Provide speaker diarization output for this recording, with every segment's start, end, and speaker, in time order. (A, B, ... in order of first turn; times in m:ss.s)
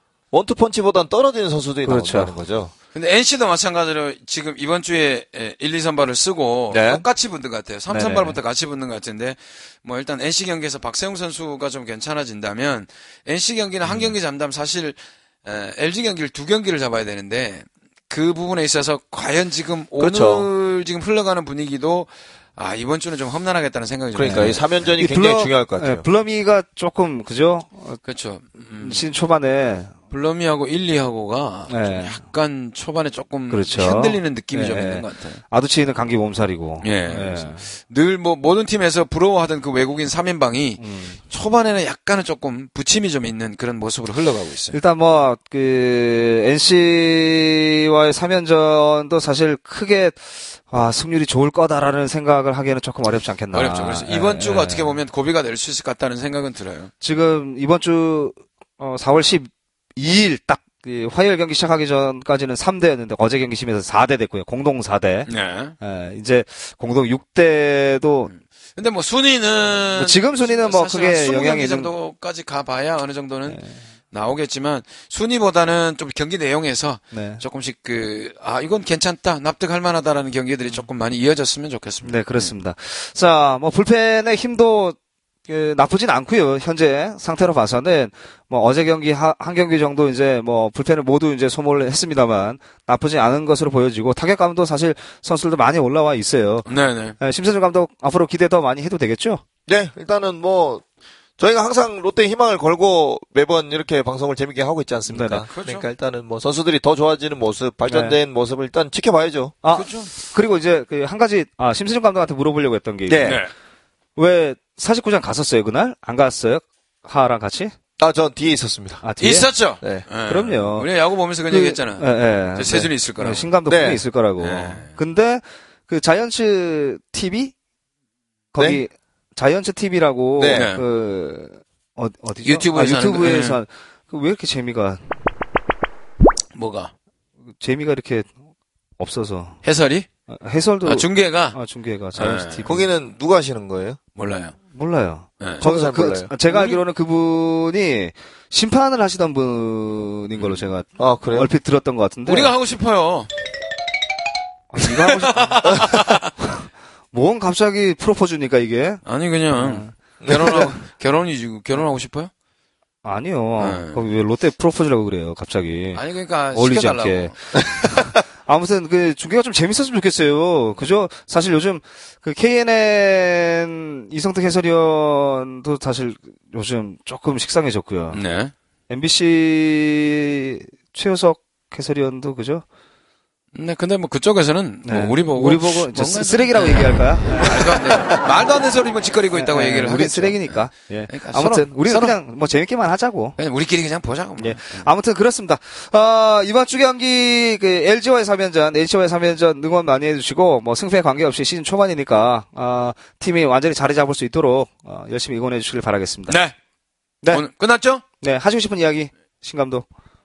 0:00.3-0:02.7 A
0:01.8-0:02.3 B
0:02.9-0:24.6 C
0:06.7-0:07.0 A
0:07.9-0:08.4 B
0:20.0-0:20.5 A
0:24.2-0:26.0 A
0:24.2-0:28.0 B
0:28.0-0:29.1 C
0:28.8-0:29.9 B
0:30.1-0:35.4 C
0:31.7-0:32.2 B
0:33.5-0:37.6 B
0:36.8-0:44.8 C
0:40.8-0:41.2 B
0:44.7-0:55.0 B
0:53.5-0:56.9 C
0:57.0-1:05.3 B
1:05.3-1:05.8 C
1:05.8-1:08.3 B
1:08.3-1:13.6 C
1:10.0-1:11.9 B
1:14.1-1:22.5 C
1:17.1-1:17.4 B
1:22.0-1:25.0 B
1:25.5-1:36.7 B
1:36.7-1:37.2 C
1:37.2-1:39.4 B
1:39.7-1:40.8 A
1:41.4-1:49.6 A
1:45.1-1:45.5 B
1:45.5-1:45.9 C
1:47.9-1:48.2 B
1:49.6-1:53.4 B
1:49.7-1:50.1 C
1:53.1-1:53.4 A
1:53.2-1:53.5 C
1:54.2-1:57.7 B
1:58.0-1:59.0 A
1:59.0-1:59.5 B
1:59.2-2:03.5 C
2:00.3-2:00.9 B
2:01.5-2:07.5 B
2:03.7-2:04.0 A
2:04.4-2:04.9 C
2:08.5-2:15.1 B
2:10.4-2:10.7 A
2:10.5-2:10.8 C
2:12.4-2:13.6 C
2:16.5-2:16.9 C
2:17.6-2:18.3 B
2:19.0-2:19.6 B
2:19.6-2:20.1 C
2:20.3-2:22.9 B
2:20.8-2:21.6 C
2:22.2-2:22.7 C
2:22.7-2:24.0 A
2:24.2-2:24.6 C
2:24.7-2:32.5 B
2:25.6-2:26.3 A
2:26.5-2:26.8 C
2:30.4-2:30.7 C
2:31.0-2:31.5 A
2:32.2-2:33.3 C
2:34.7-2:39.0 B
2:34.8-2:36.3 C
2:39.0-2:42.3 C
2:39.6-2:39.9 B
2:40.2-2:40.7 A
2:43.0-2:46.0 B
2:43.6-2:44.0 C
2:46.0-2:47.4 C
2:46.5-2:58.2 B
2:58.1-2:58.5 C
2:58.9-3:02.6 B
3:03.5-3:12.2 C
3:04.8-3:08.1 B
3:09.3-3:13.4 B
3:13.4-3:14.9 C
3:14.4-3:26.4 B
3:26.3-3:26.5 C
3:27.3-3:28.0 C
3:28.2-3:29.9 B